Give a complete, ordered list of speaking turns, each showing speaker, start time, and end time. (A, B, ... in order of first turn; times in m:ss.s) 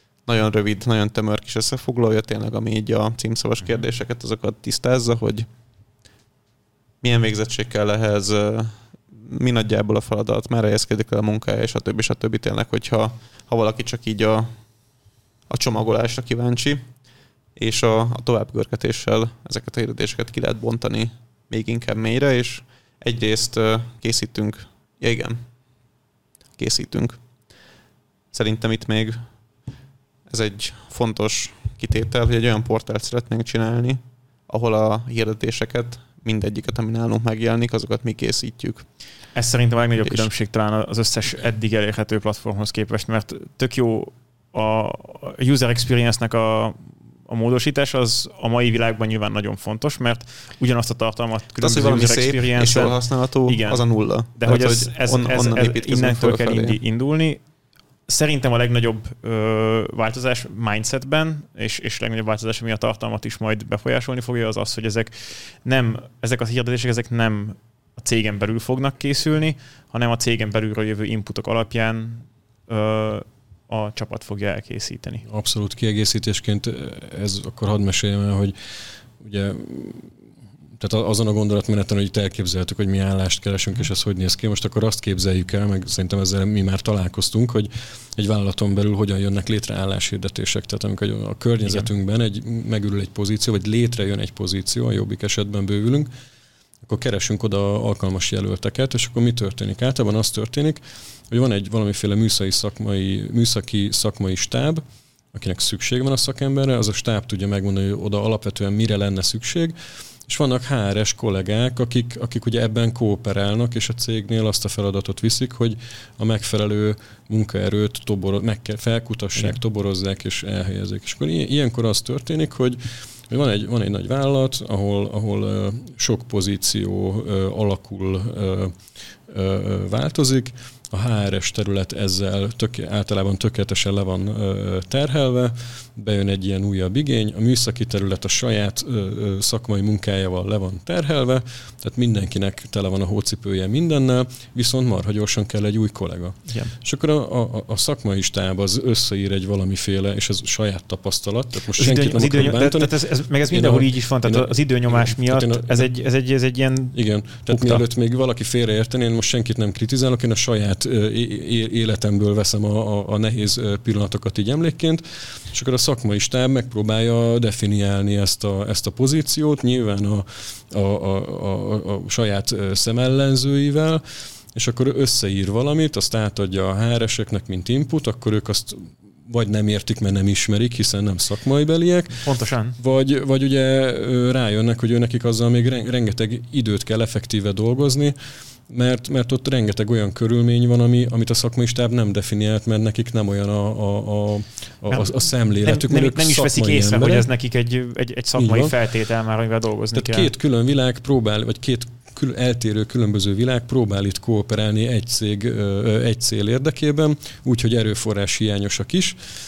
0:00.2-0:05.4 A
0:07.0-0:14.5 A
0:15.5-0:16.8 A
0:17.6-0:25.4 A
0:26.6-0:27.2 A
0:28.3-0:29.2 A
0:30.3-0:38.8 A
0:39.3-0:53.8 B
0:40.0-0:40.3 A
0:51.6-0:56.8 A
0:54.4-0:57.4 B
0:58.1-1:15.2 B
1:15.3-1:18.5 C
1:19.2-1:20.2 C
1:20.8-1:36.1 C
1:36.8-1:49.7 C
1:50.3-2:33.0 C
2:26.5-2:26.7 B
2:31.8-2:37.8 B
2:33.5-2:35.9 C
2:36.9-2:54.0 C
2:54.5-3:02.2 C
3:02.2-3:02.8 B
3:02.8-3:08.1 C
3:08.7-3:17.3 C
3:14.9-3:20.3 B
3:18.4-3:18.7 C
3:19.9-3:29.2 C